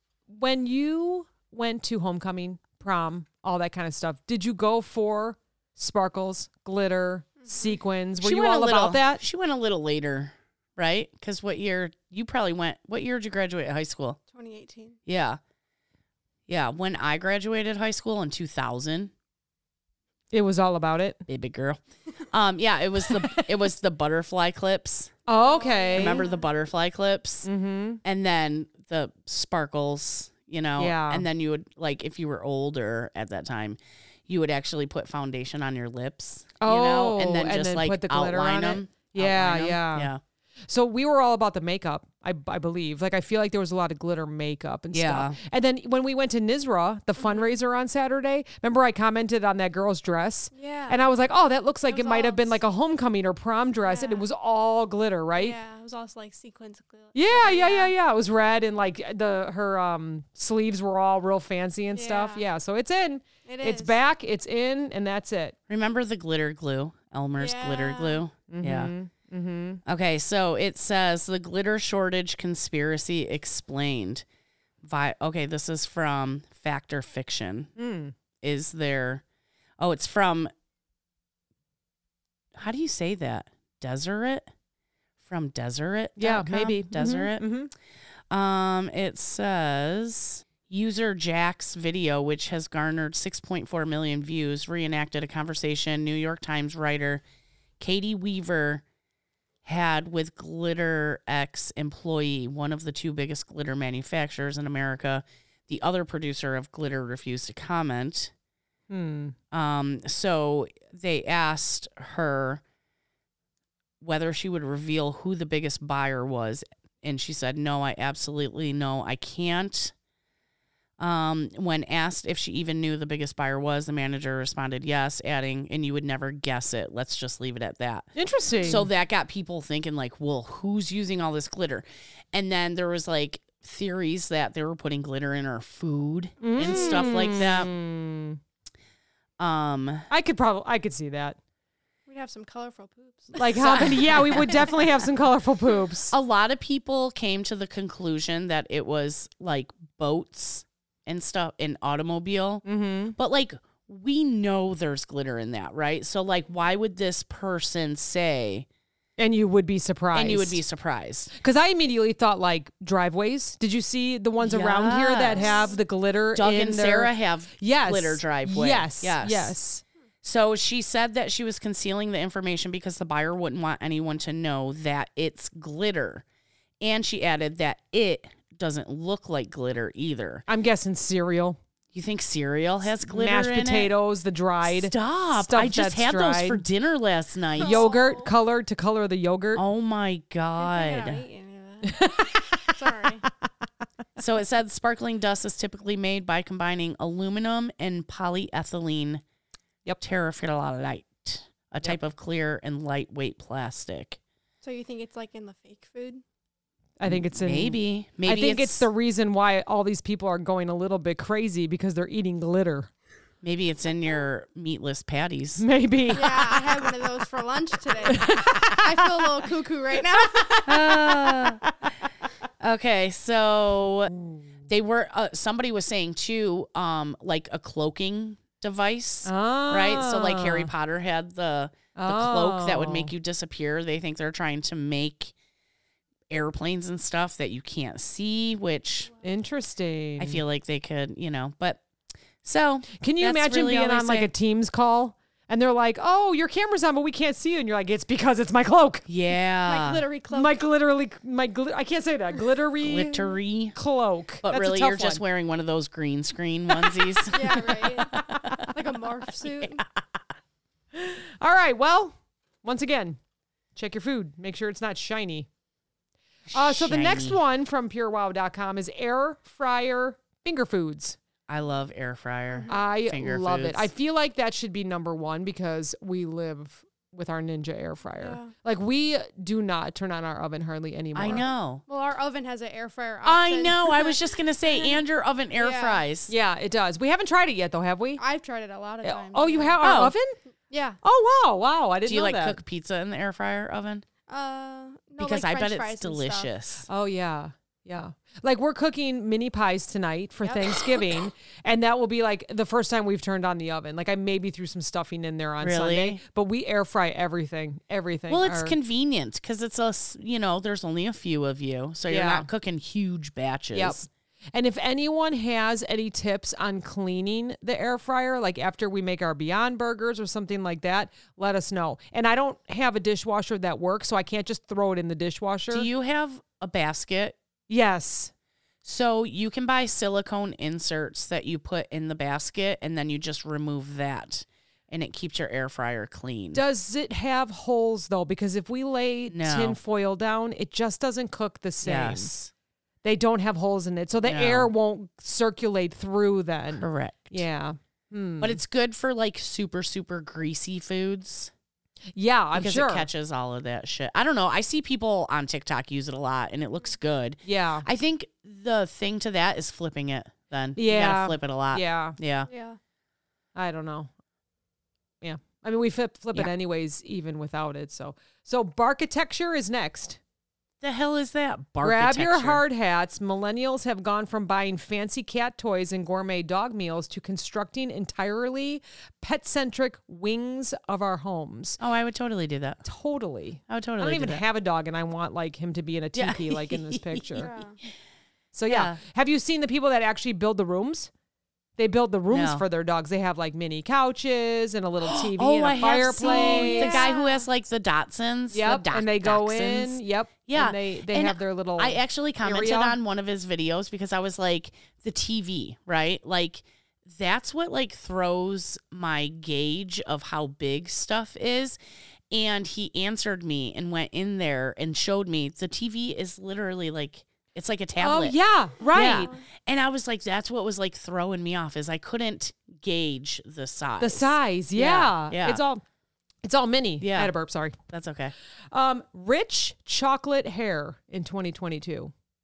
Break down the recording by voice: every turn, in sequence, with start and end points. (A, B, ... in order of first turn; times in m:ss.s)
0:00.3-0:09.2 A
0:07.4-0:07.8 B
0:08.2-0:14.2 C
0:14.3-0:15.0 B
0:15.1-0:15.4 C
0:16.5-0:19.1 C
0:20.3-0:21.2 A
0:21.3-0:25.1 C
0:23.1-0:23.4 A
0:25.3-0:26.2 A
0:25.4-0:26.5 B
0:25.9-0:27.5 C
0:27.4-0:28.0 A
0:28.0-0:40.2 C
0:30.8-0:31.2 A
0:36.6-0:40.1 A
0:40.7-0:55.5 A
0:44.9-0:45.4 C
0:47.2-0:47.5 B
0:50.5-0:51.1 B
0:51.9-0:52.6 B
0:53.8-0:54.2 B
0:55.4-0:57.9 B
0:57.1-1:05.6 A
1:01.9-1:02.4 B
1:03.4-1:04.0 B
1:05.7-1:08.9 C
1:07.4-1:08.2 B
1:08.5-1:09.8 A
1:09.8-1:14.2 C
1:14.8-1:17.7 C
1:17.8-1:18.1 A
1:18.4-1:19.2 C
1:19.8-1:20.5 C
1:22.5-1:24.5 C
1:25.2-1:27.5 C
1:26.2-1:27.7 A
1:28.3-1:37.2 C
1:37.8-1:38.8 C
1:39.6-1:48.3 C
1:48.9-1:49.3 A
1:49.5-1:52.6 C
1:54.0-1:59.9 C
2:01.0-2:08.1 C
2:08.2-2:08.9 A
2:08.6-2:17.7 C
2:16.4-2:18.4 A
2:16.6-2:17.2 B
2:19.4-2:20.1 C
2:20.1-2:21.4 A
2:22.1-2:24.0 B
2:23.4-2:26.1 A
2:23.5-2:24.8 C
2:26.1-2:32.6 C
2:32.6-2:33.2 A
2:33.2-2:38.6 C
2:39.2-2:40.6 A
2:40.1-2:41.3 C
2:41.4-2:49.8 A
2:44.4-2:45.6 C
2:45.3-2:45.8 B
2:46.3-2:49.5 C
2:50.2-2:56.2 C
2:56.8-3:00.4 C
3:00.5-3:01.6 A
3:01.9-3:03.9 C
3:03.0-3:06.6 A
3:04.6-3:07.9 C
3:07.6-3:08.3 B
3:07.6-3:09.6 A
3:09.5-3:11.2 C
3:10.6-3:13.2 B
3:11.8-3:13.4 A
3:14.2-3:19.2 C
3:20.0-3:24.2 C
3:24.6-3:26.2 B
3:27.0-3:32.9 A
3:27.0-3:28.9 C
3:33.4-3:35.6 C
3:35.6-3:36.7 A
3:36.1-3:41.3 B
3:38.1-3:38.8 A
3:40.7-3:41.6 C
3:42.6-3:44.1 C
3:44.1-3:44.4 A
3:44.7-3:55.3 C
3:49.2-3:50.7 A
3:52.0-3:53.1 A
3:56.3-3:59.1 C
3:59.2-4:00.4 A
4:00.2-4:01.8 C
4:02.4-4:04.3 C
4:03.0-4:09.0 A
4:09.1-4:10.0 C
4:09.6-4:10.6 B
4:10.3-4:15.2 A
4:12.8-4:13.8 C
4:14.4-4:17.6 C
4:17.3-4:19.8 B
4:18.0-4:18.7 A
4:18.3-4:18.6 C
4:20.9-4:23.2 A
4:23.7-4:25.5 A
4:26.5-4:27.4 C
4:26.5-4:31.2 A
4:31.5-4:33.9 C
4:32.5-4:32.8 B
4:32.7-4:41.4 A
4:38.2-4:38.5 B
4:41.1-4:41.8 C
4:41.2-4:45.0 B
4:43.2-4:46.3 C
4:45.6-4:46.0 B
4:46.3-4:48.2 A
4:48.2-4:49.8 B
4:49.0-4:50.3 A
4:49.8-4:50.1 C
4:50.7-4:51.0 B
4:51.0-4:52.6 A
4:52.0-4:54.0 C
4:54.3-4:56.5 B
4:55.2-4:56.9 C
4:56.9-5:08.7 A
5:00.4-5:00.8 B
5:05.6-5:06.2 C
5:08.3-5:14.0 C
5:12.1-5:12.5 A
5:13.7-5:25.9 A
5:25.7-5:27.4 C
5:27.7-5:28.3 A
5:28.8-5:36.6 C
5:36.5-5:42.3 A
5:39.3-5:39.8 C
5:41.8-5:42.5 C
5:43.0-5:48.6 A
5:44.2-5:44.7 C
5:46.8-5:47.4 C
5:48.4-5:51.5 C
5:52.2-5:53.1 A
5:52.5-6:02.5 C
5:57.4-5:57.8 A
6:00.8-6:02.2 A
6:02.5-6:02.8 B
6:03.6-6:04.1 A
6:05.2-6:10.2 A
6:10.8-6:12.6 C
6:11.8-6:21.8 A
6:21.8-6:22.8 C
6:22.8-6:27.5 A
6:23.7-6:24.4 C
6:26.1-6:27.5 C
6:27.3-6:27.8 B
6:28.5-6:31.1 A
6:28.7-6:29.0 C
6:31.8-6:37.0 A
6:32.3-6:32.6 C
6:35.0-6:51.8 C
6:36.2-6:37.5 B
6:38.5-6:43.0 A
6:52.3-6:58.4 C
6:58.0-6:59.3 A
6:58.9-7:05.6 C
6:59.0-6:59.4 B
7:04.0-7:05.8 A
7:06.4-7:07.8 A
7:07.0-7:07.3 C
7:07.9-7:08.3 C
7:08.7-7:12.1 A